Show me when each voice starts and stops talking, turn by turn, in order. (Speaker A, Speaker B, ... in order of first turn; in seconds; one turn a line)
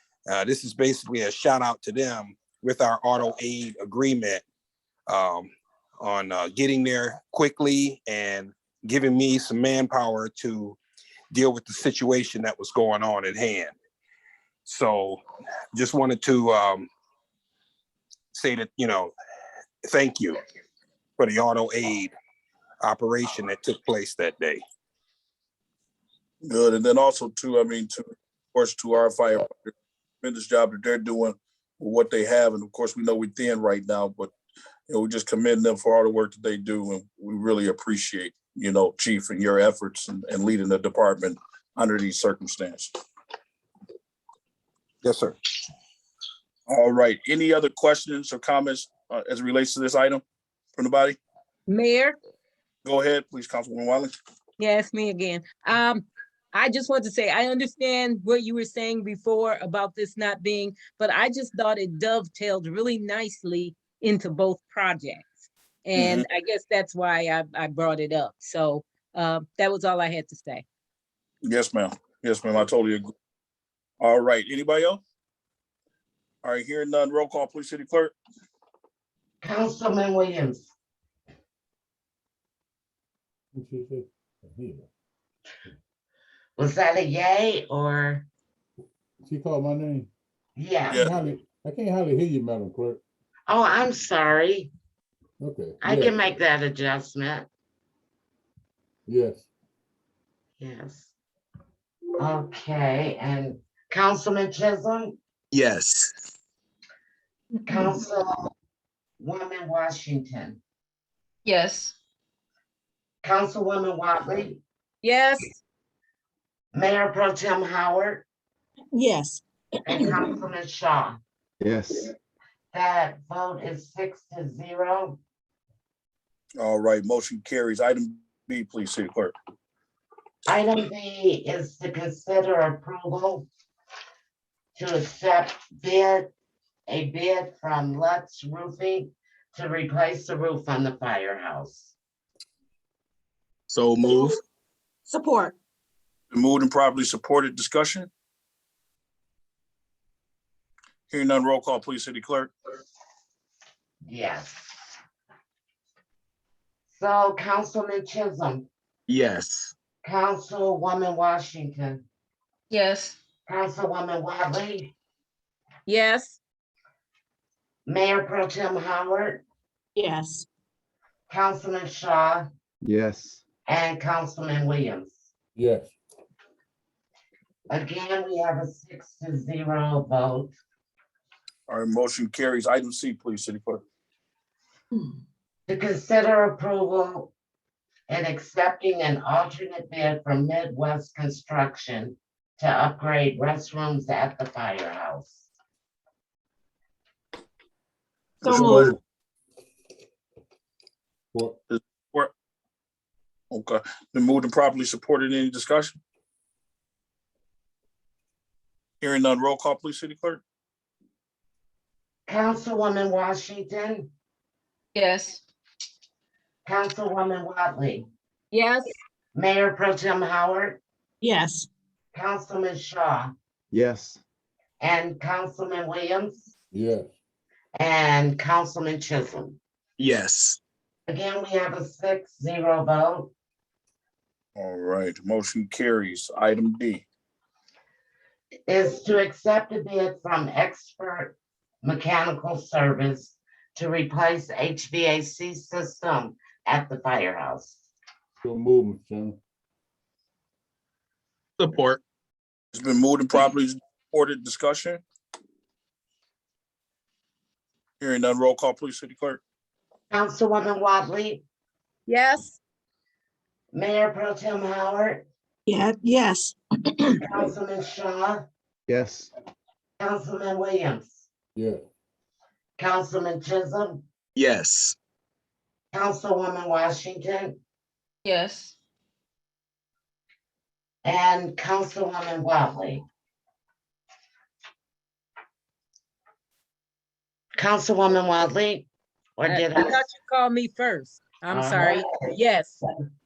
Speaker A: 0.3-4.4
Speaker A: 5.1-10.8
Speaker A: 11.3-13.7
Speaker A: 14.7-15.2
Speaker A: 15.7-16.9
Speaker A: 18.3-19.1
Speaker A: 19.9-20.4
Speaker A: 21.2-22.1
Speaker A: 22.8-24.6
Speaker B: 26.4-34.3
Speaker B: 34.9-43.0
Speaker A: 45.0-45.4
Speaker B: 46.7-50.2
Speaker B: 50.8-51.2
Speaker C: 51.7-52.2
Speaker B: 52.8-54.1
Speaker C: 54.6-70.7
Speaker B: 66.0-66.3
Speaker B: 71.4-73.1
Speaker B: 74.0-75.0
Speaker B: 76.4-78.1
Speaker D: 79.4-80.7
Speaker E: 83.5-84.9
Speaker D: 86.6-88.3
Speaker E: 89.2-90.1
Speaker D: 90.6-91.1
Speaker B: 90.9-91.2
Speaker E: 90.9-93.0
Speaker D: 93.5-94.7
Speaker E: 95.4-96.3
Speaker D: 95.8-97.5
Speaker E: 99.1-99.5
Speaker D: 100.6-101.1
Speaker D: 102.2-105.2
Speaker F: 105.5-106.1
Speaker D: 107.7-108.5
Speaker D: 109.2-110.6
Speaker C: 111.5-111.9
Speaker D: 113.2-114.6
Speaker C: 115.0-115.6
Speaker D: 116.7-118.3
Speaker G: 119.0-120.3
Speaker D: 119.9-121.2
Speaker H: 121.6-122.1
Speaker D: 122.7-125.2
Speaker B: 126.6-129.3
Speaker D: 130.5-133.5
Speaker D: 134.8-136.3
Speaker D: 136.9-141.9
Speaker F: 143.7-144.4
Speaker G: 145.1-145.6
Speaker B: 146.3-148.1
Speaker B: 151.1-152.5
Speaker D: 154.0-154.8
Speaker D: 156.9-158.7
Speaker F: 159.1-159.7
Speaker D: 160.0-162.1
Speaker C: 162.7-163.2
Speaker D: 163.5-164.9
Speaker C: 165.9-166.4
Speaker D: 167.9-169.4
Speaker G: 170.0-170.5
Speaker D: 171.3-172.5
Speaker H: 172.8-173.4
Speaker D: 173.7-175.2
Speaker E: 175.6-175.9
Speaker D: 177.7-180.5
Speaker B: 181.7-183.8
Speaker D: 185.7-187.3
Speaker D: 188.1-195.5
Speaker E: 198.4-198.9
Speaker B: 198.4-198.9
Speaker G: 198.4-198.9
Speaker E: 201.3-201.6
Speaker B: 201.7-202.3
Speaker B: 203.5-206.0
Speaker B: 209.0-210.4
Speaker D: 212.3-214.1
Speaker C: 214.9-215.4
Speaker D: 216.7-218.1
Speaker C: 218.5-218.9
Speaker D: 219.3-220.8
Speaker G: 221.2-221.7
Speaker D: 222.1-223.3
Speaker H: 223.7-224.2
Speaker D: 224.8-226.5
Speaker E: 226.7-227.1
Speaker D: 227.8-229.6
Speaker F: 230.0-230.6
Speaker D: 231.1-233.3
Speaker B: 234.6-237.1
Speaker D: 238.7-247.8
Speaker E: 248.4-249.4
Speaker F: 251.6-251.9
Speaker B: 252.7-255.0
Speaker B: 258.0-259.4
Speaker D: 260.1-261.4
Speaker C: 262.1-262.6
Speaker D: 263.7-265.3
Speaker G: 265.7-267.2
Speaker D: 267.2-268.5
Speaker H: 268.9-269.3
Speaker D: 270.0-271.2
Speaker E: 271.6-271.8
Speaker D: 272.8-274.0
Speaker F: 274.4-275.0
Speaker D: 275.9-277.6
Speaker C: 278.3-278.7
Speaker D: 281.0-283.1
Speaker D: 287.6-290.0
Speaker C: 289.5-292.8
Speaker D: 291.5-292.2